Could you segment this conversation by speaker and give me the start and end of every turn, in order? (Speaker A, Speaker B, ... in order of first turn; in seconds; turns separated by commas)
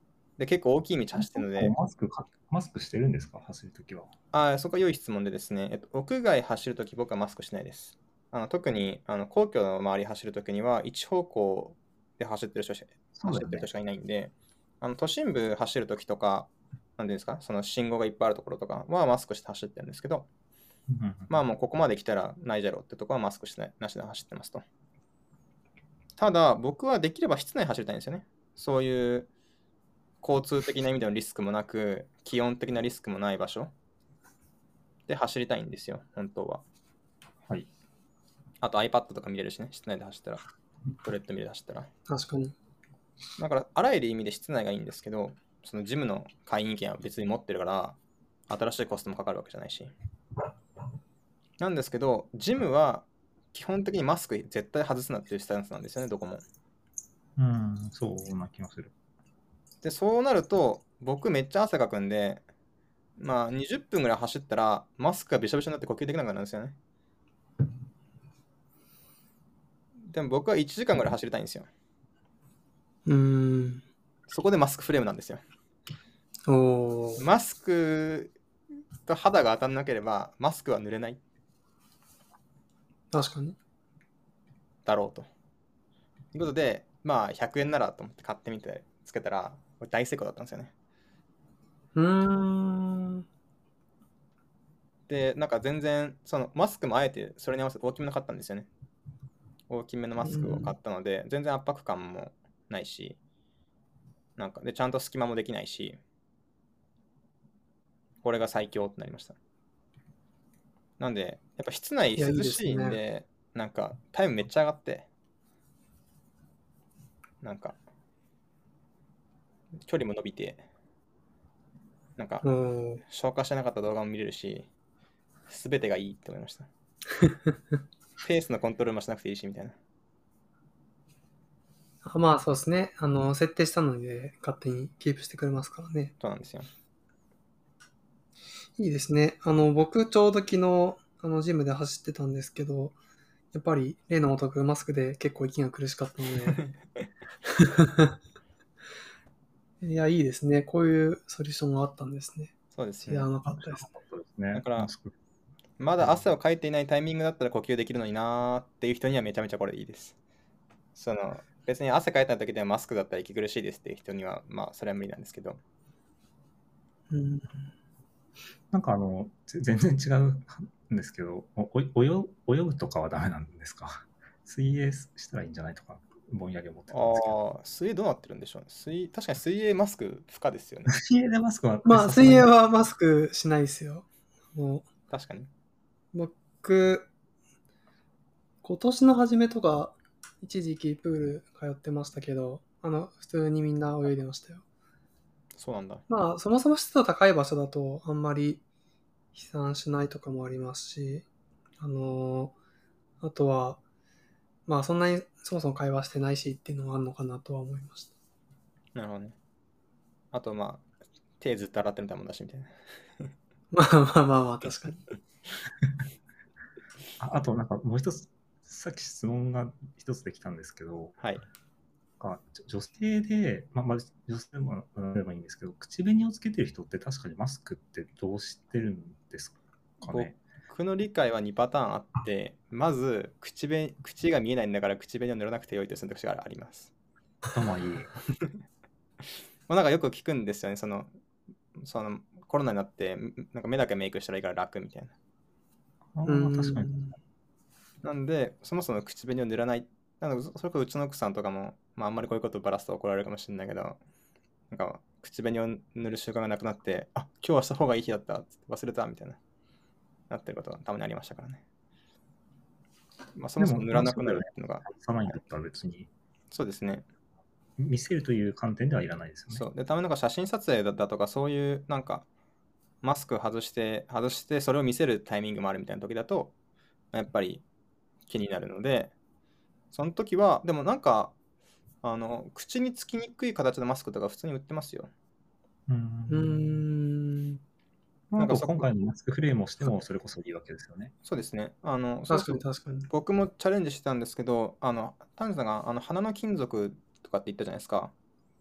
Speaker A: 0.4-1.7, Speaker B: 1.2-4.1, Speaker A: 4.3-20.3, Speaker B: 13.1-13.7, Speaker B: 20.9-21.3, Speaker A: 21.3-24.6, Speaker A: 26.2-29.3, Speaker A: 30.2-33.7, Speaker A: 35.1-36.6, Speaker A: 38.6-40.4, Speaker A: 41.0-41.9, Speaker C: 42.1-42.5, Speaker A: 43.4-48.0, Speaker A: 48.5-49.9, Speaker A: 51.6-56.4, Speaker B: 57.4-58.9, Speaker A: 59.8-62.4, Speaker A: 63.2-66.8, Speaker A: 70.1-71.7, Speaker C: 73.0-73.8, Speaker A: 74.3-75.4, Speaker C: 76.5-77.2, Speaker A: 77.2-78.4, Speaker A: 79.0-81.2, Speaker C: 83.1-83.5, Speaker A: 84.9-85.3, Speaker A: 86.3-90.7, Speaker C: 91.9-93.2, Speaker A: 95.1-98.7, Speaker A: 99.7-103.2, Speaker C: 100.2-100.7, Speaker A: 104.4-106.0, Speaker A: 108.2-109.4, Speaker A: 111.0-115.1, Speaker C: 112.2-113.0, Speaker A: 117.4-117.8, Speaker A: 119.9-120.6, Speaker A: 122.2-122.4, Speaker C: 122.4-123.0, Speaker A: 123.0-124.7, Speaker A: 125.5-126.7, Speaker A: 128.2-129.7, Speaker C: 132.0-136.1, Speaker A: 136.2-136.7, Speaker C: 138.8-142.9, Speaker C: 143.5-146.7, Speaker C: 147.5-148.1, Speaker C: 149.8-152.5, Speaker A: 152.7-153.3, Speaker C: 153.1-153.9, Speaker B: 153.5-155.1, Speaker A: 154.5-154.9, Speaker A: 155.8-160.1, Speaker B: 156.0-156.2, Speaker A: 160.9-165.6, Speaker C: 167.1-167.7, Speaker B: 168.7-177.4, Speaker A: 176.9-180.9, Speaker B: 180.9-182.5, Speaker C: 181.9-184.9, Speaker A: 185.1-185.5, Speaker C: 186.1-187.1, Speaker C: 188.6-194.6, Speaker A: 195.6-196.0, Speaker C: 196.1-198.6, Speaker C: 199.3-201.2, Speaker C: 201.8-202.5, Speaker C: 203.2-203.8, Speaker C: 204.7-208.1, Speaker A: 208.9-209.3, Speaker A: 210.3-210.8, Speaker A: 211.4-213.3, Speaker C: 213.7-215.1, Speaker B: 217.2-221.2, Speaker B: 222.2-230.4, Speaker A: 230.0-236.9, Speaker B: 237.5-238.1, Speaker A: 239.7-241.1, Speaker A: 241.7-245.1, Speaker B: 246.1-247.0, Speaker C: 246.2-247.1, Speaker A: 248.0-254.0, Speaker A: 254.7-259.4, Speaker A: 260.3-261.6, Speaker A: 263.4-264.9, Speaker B: 263.6-266.1, Speaker A: 266.5-267.1, Speaker B: 267.8-269.6, Speaker A: 269.5-272.2, Speaker A: 273.0-276.5, Speaker A: 277.1-277.6, Speaker A: 278.3-279.1, Speaker A: 279.9-281.3, Speaker A: 282.0-285.1, Speaker B: 285.9-286.8, Speaker C: 286.3-287.6, Speaker B: 288.3-291.1, Speaker A: 288.4-288.9, Speaker A: 291.2-298.1, Speaker C: 292.3-293.1